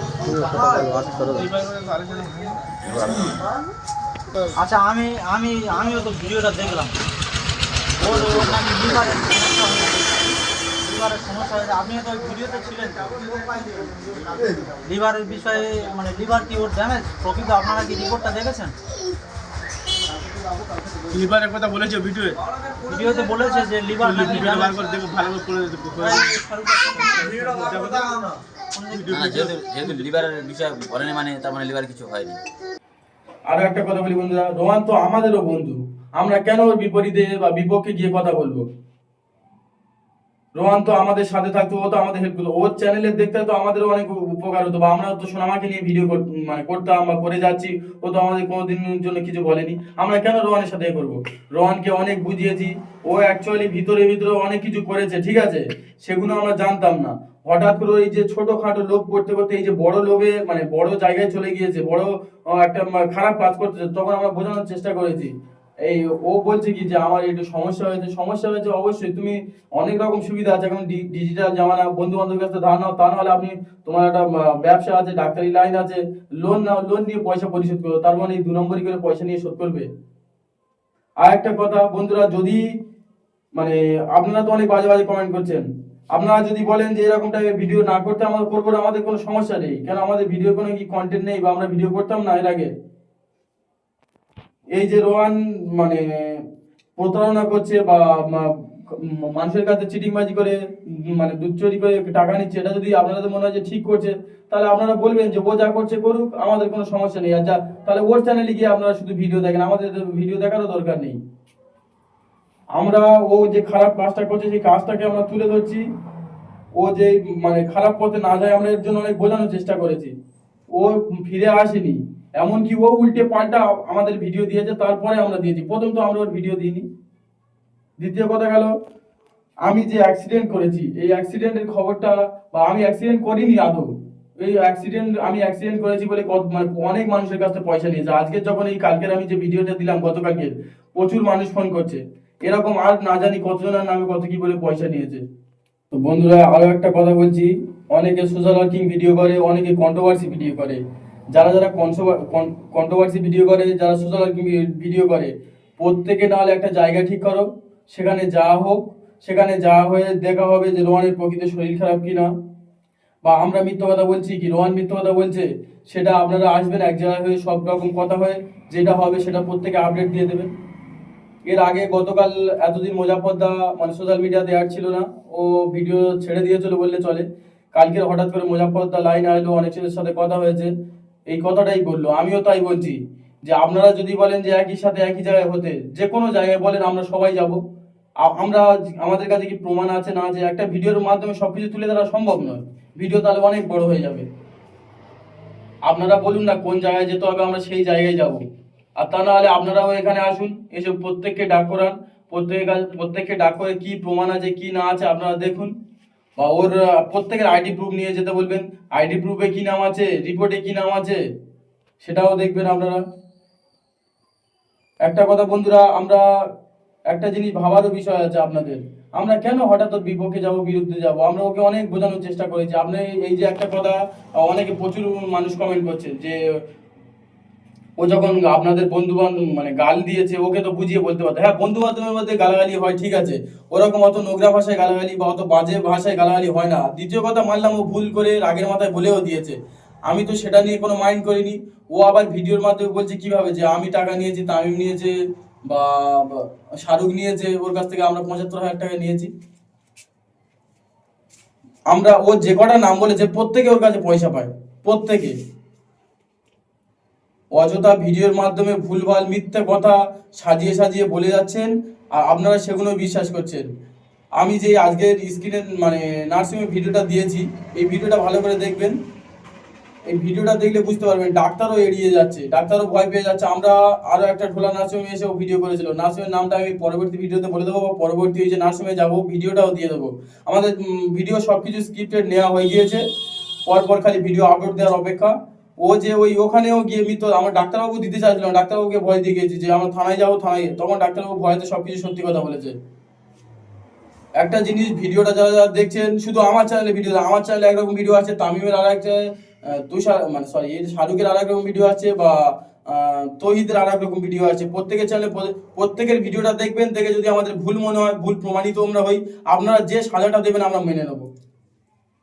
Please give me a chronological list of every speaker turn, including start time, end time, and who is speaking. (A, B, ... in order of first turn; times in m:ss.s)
0:00.8-0:01.3 A
0:01.2-0:02.6 B
0:02.8-0:03.5 C
0:04.6-0:07.0 A
0:08.0-0:13.4 A
0:14.8-0:18.7 A
0:21.1-0:22.4 B
0:22.8-0:24.8 A
0:24.0-0:26.3 B
0:26.0-0:27.7 A
0:27.5-0:28.4 B
0:28.7-0:29.5 A
0:28.9-0:29.5 B
0:29.1-0:32.4 C
0:33.5-0:38.6 D
0:40.6-1:05.3 D
1:05.8-1:19.9 D
1:21.2-1:22.6 D
1:23.6-1:32.7 D
1:34.7-1:36.0 D
1:37.0-1:40.6 D
1:41.1-1:51.2 D
1:52.7-1:55.8 D
1:56.8-2:00.1 D
2:00.7-2:06.8 D
2:08.0-2:08.7 D
2:09.6-2:13.9 D
2:14.4-2:25.2 D
2:25.9-2:30.8 D
2:31.3-2:42.3 D
2:43.2-2:50.5 D
2:51.5-3:00.7 D
3:01.3-3:07.6 D
3:08.2-3:14.2 D
3:15.9-3:18.4 D
3:19.0-3:25.7 D
3:26.4-3:31.2 D
3:32.0-3:33.0 D
3:35.0-3:36.2 D
3:37.1-3:46.4 D
3:48.0-3:59.6 D
4:00.1-4:05.1 D
4:05.7-4:09.3 D
4:11.9-4:15.3 D
4:17.5-4:23.6 D
4:24.4-4:28.9 D
4:30.1-4:43.0 D
4:43.7-4:52.7 D
4:54.4-4:59.2 D
4:59.7-5:11.3 D